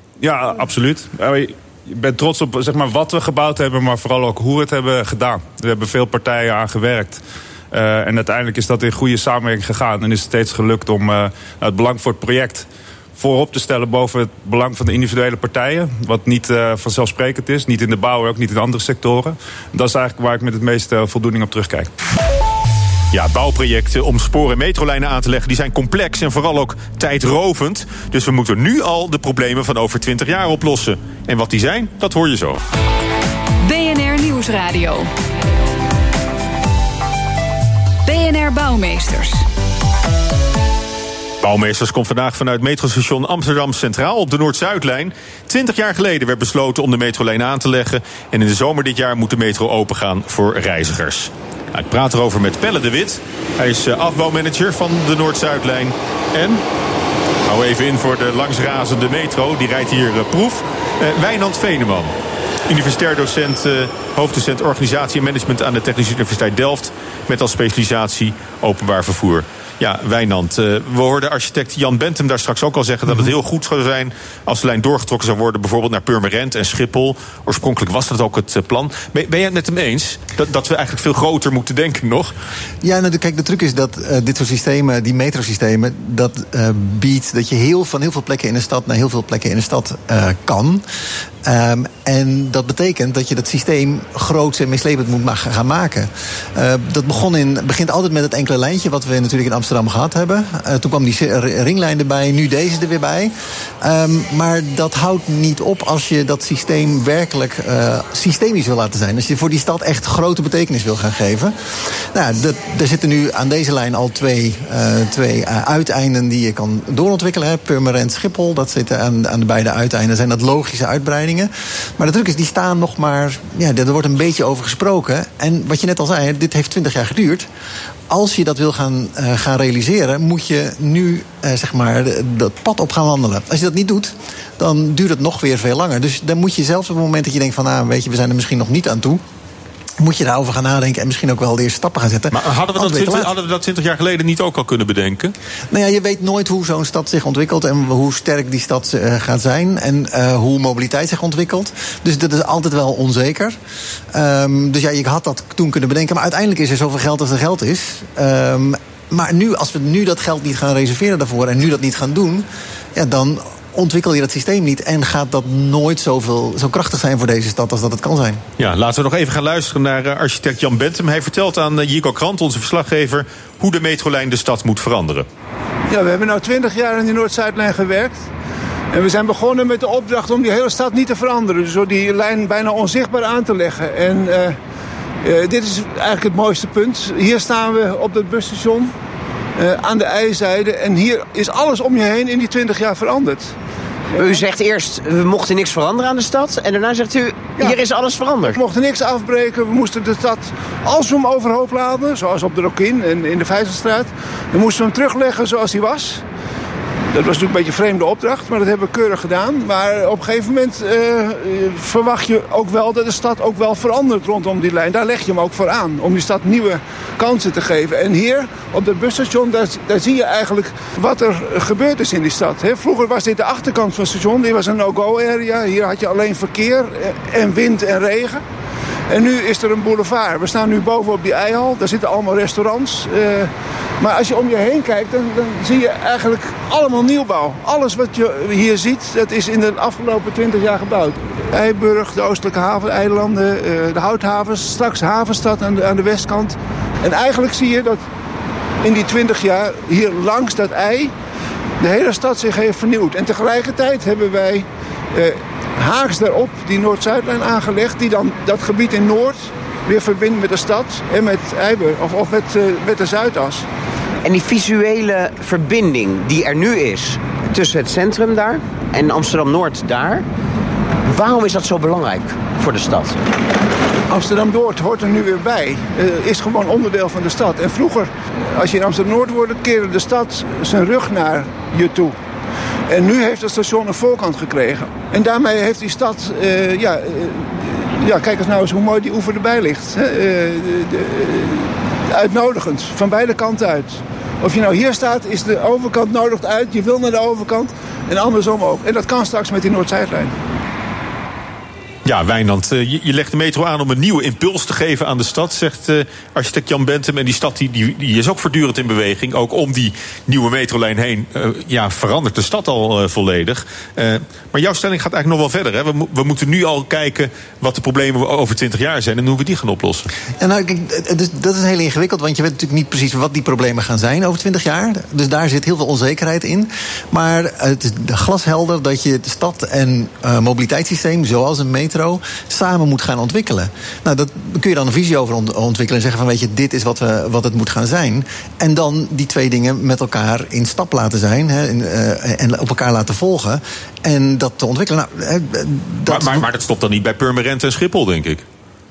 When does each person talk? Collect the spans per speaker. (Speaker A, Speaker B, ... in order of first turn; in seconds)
Speaker A: 0.2-7.2, 7.7-21.9
Speaker B: 23.1-32.6, 41.4-56.6, 57.4-62.1, 62.7-82.3, 142.3-145.3, 168.6-175.3, 302.0-320.1, 346.1-348.4
Speaker C: 33.6-35.1, 38.0-39.4
Speaker D: 82.8-90.8, 91.4-127.5, 128.1-139.2, 140.0-143.3, 145.7-153.6, 154.1-168.4, 320.4-346.4
Speaker E: 175.9-178.2, 178.9-184.6, 185.2-188.9, 189.6-193.5, 198.4-206.2, 207.1-228.4, 229.1-248.0, 248.8-251.1, 251.8-263.7, 274.1-282.1, 282.9-300.4
Speaker F: 194.2-198.6, 264.2-270.2, 271.1-273.2